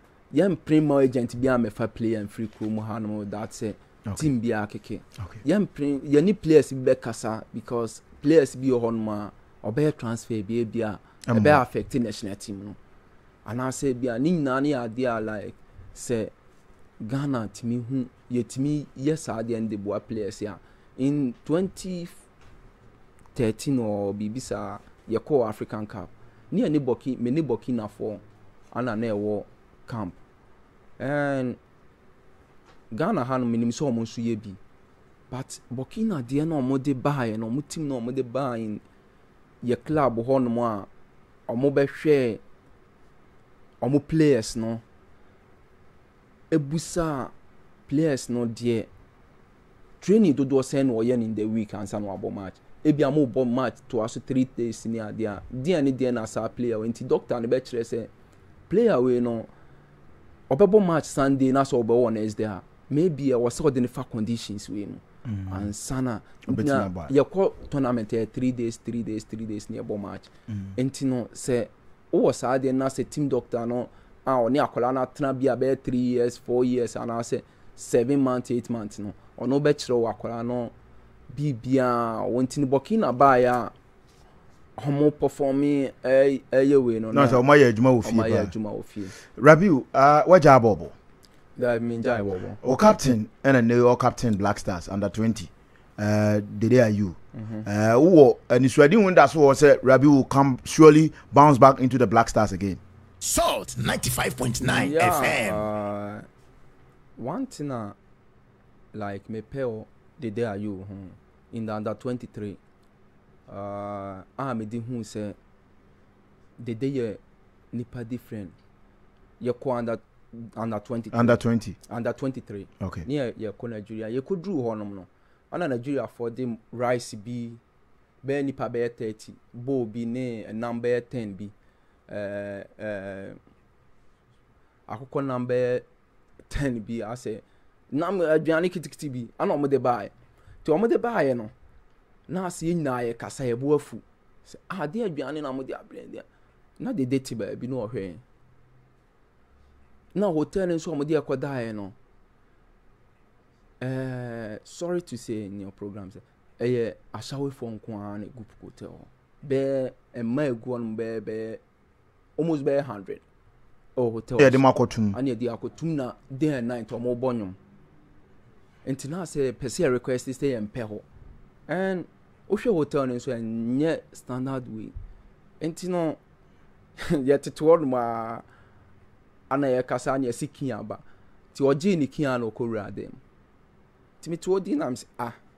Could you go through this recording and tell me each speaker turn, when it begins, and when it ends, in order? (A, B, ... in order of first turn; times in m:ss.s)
0:00.3-0:12.8 A
0:11.2-0:11.6 B
0:13.4-0:16.3 A
0:17.0-0:22.2 A
0:23.3-0:30.2 A
0:31.0-0:31.6 A
0:32.9-0:34.6 A
0:35.3-0:38.8 A
0:39.6-0:40.9 A
0:41.5-0:42.4 A
0:43.8-0:44.8 A
0:46.5-0:47.3 A
0:47.9-0:48.9 A
0:50.0-0:58.1 A
0:58.7-0:59.5 A
1:00.5-1:20.7 A
1:05.2-1:05.7 B
1:06.5-1:07.1 B
1:10.5-1:10.7 B
1:21.3-1:23.7 A
1:24.8-1:27.4 A
1:27.1-1:28.5 B
1:28.0-1:29.2 A
1:29.3-1:30.9 B
1:31.6-1:32.6 A
1:32.6-1:42.8 B
1:37.3-1:37.7 A
1:43.2-1:45.6 C
1:44.6-1:46.3 A
1:47.2-1:48.0 A
1:48.9-1:52.6 A
1:53.5-1:55.4 A
1:56.6-1:57.2 A
1:57.7-1:58.5 A
1:59.4-2:07.6 A
2:01.1-2:01.8 B
2:02.8-2:03.0 B
2:08.2-2:11.5 A
2:12.1-2:13.4 A
2:14.9-2:15.8 A
2:16.5-2:21.5 A
2:22.3-2:26.2 A
2:26.8-2:28.2 A
2:30.1-2:31.9 A
2:33.8-2:41.6 A
2:42.4-2:43.2 A
2:44.0-2:47.6 A
2:44.4-2:45.2 B
2:48.8-2:51.0 A
2:51.7-2:54.9 A
2:55.6-2:56.2 A
2:57.0-2:58.4 A
2:59.5-3:01.0 A
3:01.5-3:03.2 A
3:04.2-3:05.4 A